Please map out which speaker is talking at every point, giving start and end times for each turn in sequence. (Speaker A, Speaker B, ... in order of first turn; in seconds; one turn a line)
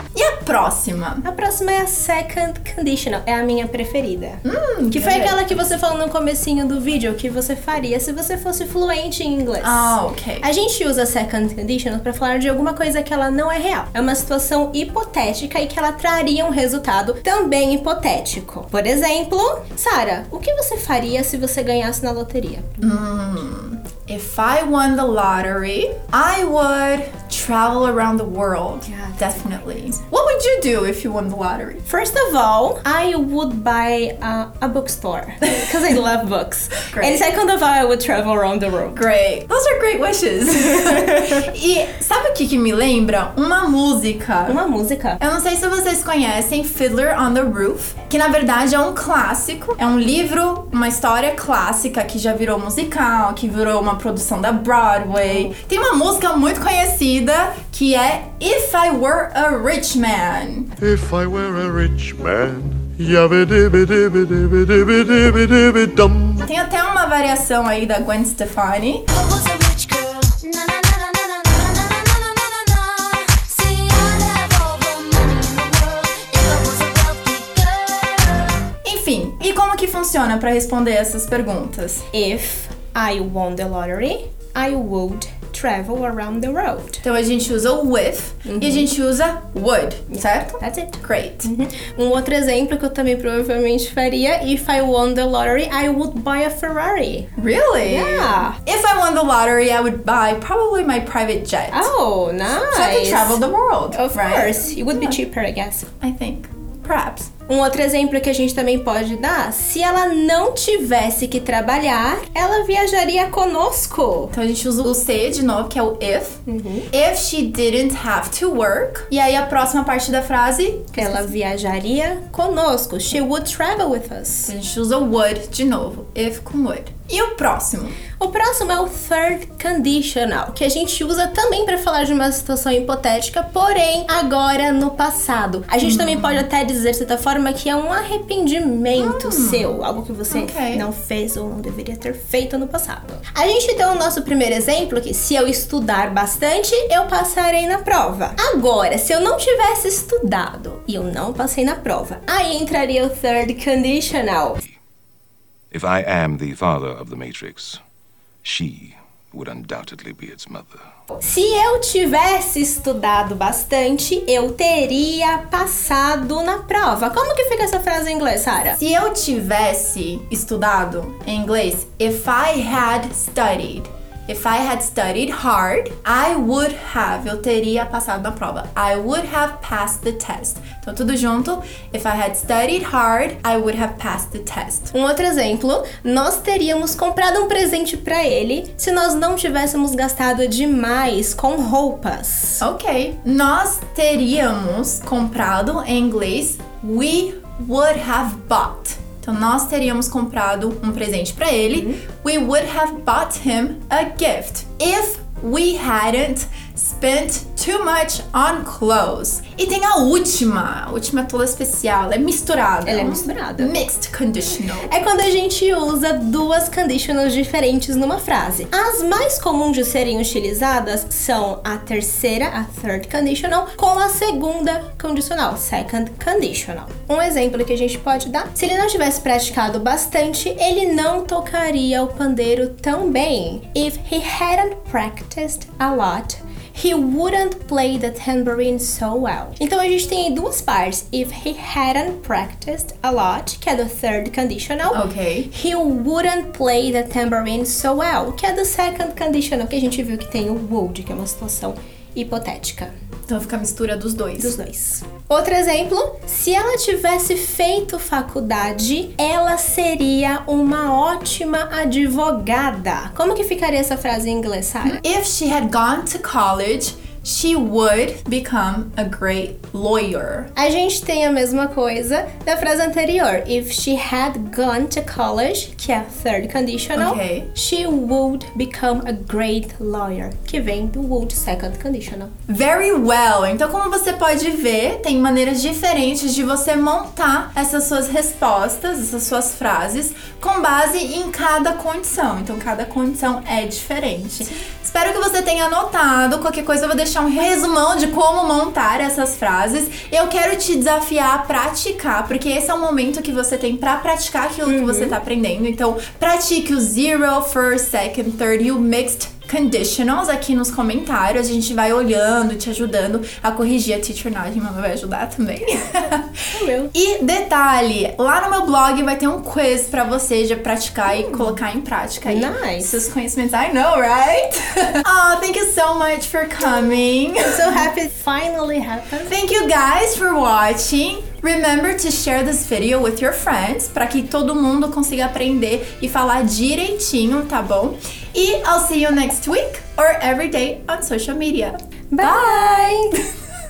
Speaker A: 0.1-1.2
Speaker B: 1.2-23.1
Speaker A: 4.4-5.3
Speaker A: 9.6-10.5
Speaker A: 22.8-31.8
Speaker B: 28.9-29.4
Speaker B: 31.9-39.1
Speaker A: 36.9-37.2
Speaker A: 38.9-44.6
Speaker B: 40.8-41.5
Speaker B: 44.5-45.2
Speaker A: 45.2-60.7
Speaker B: 55.2-55.6
Speaker C: 60.8-66.5
Speaker A: 66.5-69.2
Speaker D: 69.2-70.7
Speaker D: 71.5-78.7
Speaker A: 78.8-82.1
Speaker B: 82.1-87.0
Speaker A: 87.0-91.5
Speaker B: 88.5-88.9
Speaker B: 90.1-97.3
Speaker A: 97.4-101.9
Speaker B: 97.8-98.6
Speaker B: 101.7-105.9
Speaker A: 102.7-105.2
Speaker A: 106.0-107.3
Speaker B: 107.5-114.3
Speaker A: 114.4-121.3
Speaker B: 116.5-116.9
Speaker B: 120.9-124.5
Speaker A: 124.5-128.0
Speaker B: 128.2-154.6
Speaker A: 135.8-136.4
Speaker A: 139.0-139.7
Speaker A: 140.3-140.9
Speaker E: 155.7-157.8
Speaker E: 158.4-160.8
Speaker B: 161.2-168.8
Speaker A: 168.8-184.9
Speaker B: 184.9-192.7
Speaker A: 192.6-214.9
Speaker B: 201.7-202.0
Speaker B: 212.8-213.8
Speaker B: 214.8-252.9
Speaker A: 244.9-245.5
Speaker A: 253.3-254.6
Speaker B: 254.4-265.0
Speaker A: 264.9-270.5
Speaker B: 270.6-282.3
Speaker A: 277.1-277.5
Speaker A: 282.5-327.9
Speaker B: 304.6-305.2
Speaker B: 316.5-316.9
Speaker B: 321.1-321.6
Speaker B: 322.2-323.1
Speaker B: 326.7-329.4
Speaker A: 329.3-342.7
Speaker B: 342.1-343.2